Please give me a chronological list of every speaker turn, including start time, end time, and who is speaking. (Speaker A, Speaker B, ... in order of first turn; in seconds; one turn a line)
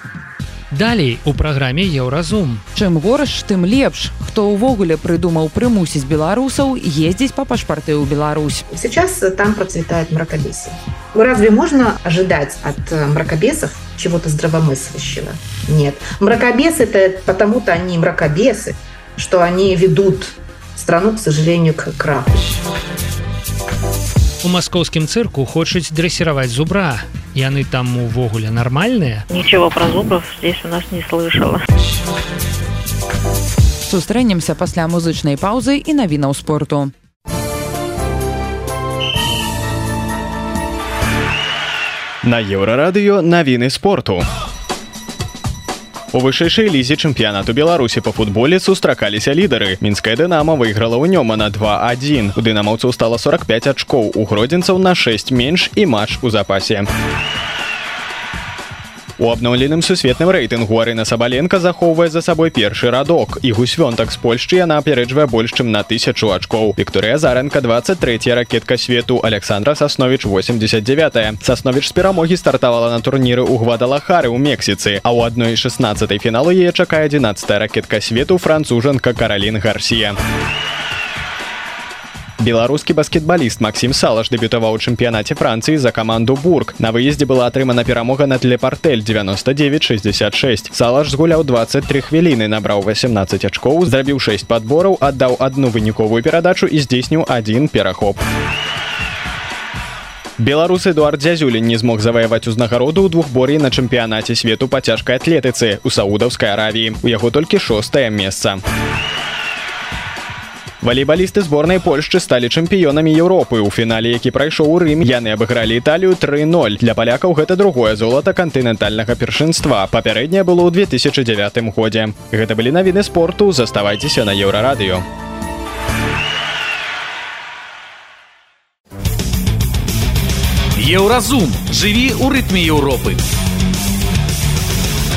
Speaker A: 0.7-2.6
Speaker B: 2.7-8.6
Speaker C: 8.7-22.5
Speaker A: 24.4-29.2
Speaker D: 29.3-31.6
Speaker B: 33.9-36.9
Speaker E: 42.2-44.2
Speaker E: 46.1-56.9
Speaker E: 59.2-80.2
Speaker E: 82.4-98.2
Speaker E: 100.4-108.6
Speaker E: 110.8-125.0
Speaker F: 130.8-133.2